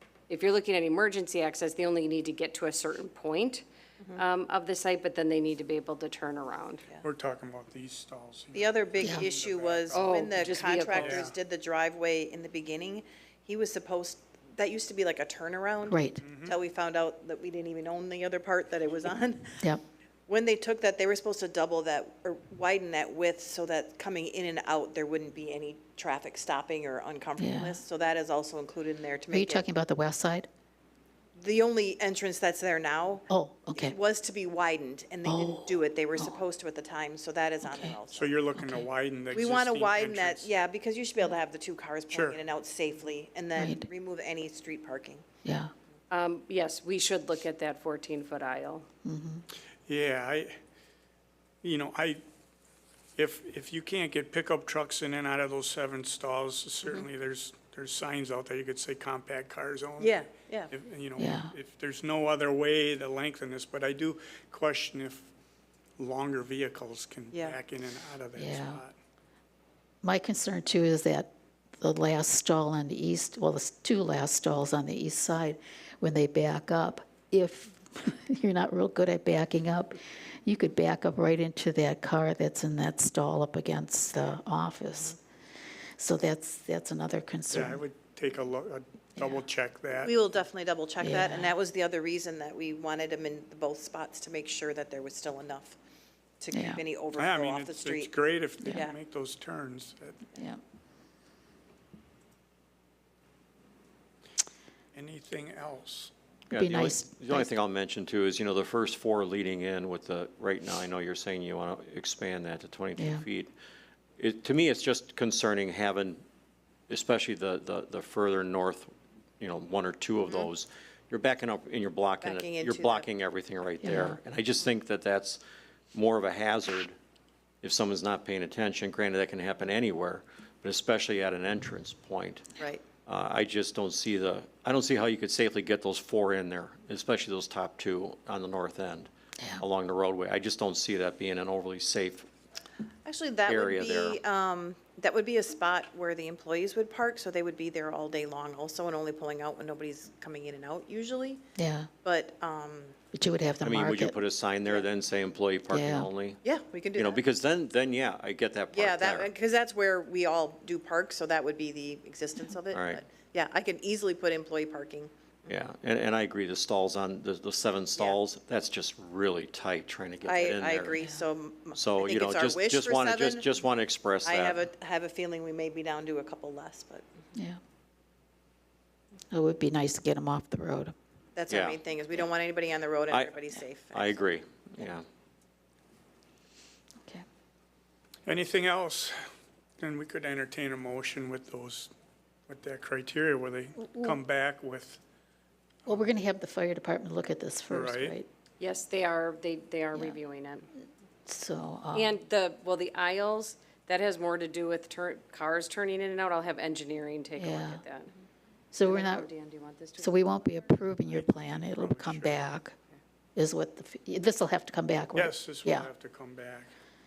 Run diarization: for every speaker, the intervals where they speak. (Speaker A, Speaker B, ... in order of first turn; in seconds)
Speaker A: 0.3-3.6, 4.2-6.9, 9.9-11.3, 46.1-48.9, 198.6-200.7, 201.9-208.1, 208.8-210.8
Speaker B: 7.0-10.1, 10.9-11.3, 16.2-16.6, 38.1-40.5, 42.1-42.4, 49.9-50.5, 51.6-52.2, 53.1-65.3, 66.0-68.9, 87.5-90.2, 97.1-100.3, 104.9-106.1, 188.2-189.2, 189.8-191.9, 192.5-195.0, 197.7-198.2, 211.1-212.6, 215.1-216.7
Speaker C: 8.5-19.6, 20.3-29.6, 31.4-38.4, 39.3-45.2, 60.0-60.7, 67.3-67.6, 90.0-95.8, 96.4-98.1, 98.7-99.0, 120.2-120.5, 122.2-123.1, 143.0-151.4, 152.0-152.9, 156.4-157.2, 158.7-165.6, 167.9-168.2, 170.2-173.5, 174.2-177.0, 181.3-184.3
Speaker D: 9.0-9.3, 15.9-16.2, 27.4-27.8, 29.3-30.5, 33.3-34.0, 35.2-36.4, 37.6-38.0, 38.5-38.8, 43.5-43.9, 45.4-45.7, 49.0-49.4, 61.2-61.5, 68.4-68.8, 70.0-85.2, 86.0-87.8, 91.0-91.5, 96.5-96.8, 98.6-98.9, 106.5-107.5, 113.0-113.2, 123.8-124.2, 139.4-139.6, 151.6-151.9, 153.1-154.1, 155.7-156.1, 179.3-180.9, 195.8-198.3, 201.2-202.2, 207.4-207.8, 208.7-209.3, 210.0-212.7, 213.3-215.9
Speaker E: 106.5-113.5, 114.2-116.2, 116.9-125.4, 125.9-126.9, 127.6-132.5, 133.1-142.3, 143.4-144.2, 153.6-156.4, 156.9-159.3, 162.7-163.0, 165.5-171.0, 171.7-174.6, 181.5-181.8, 183.1-185.0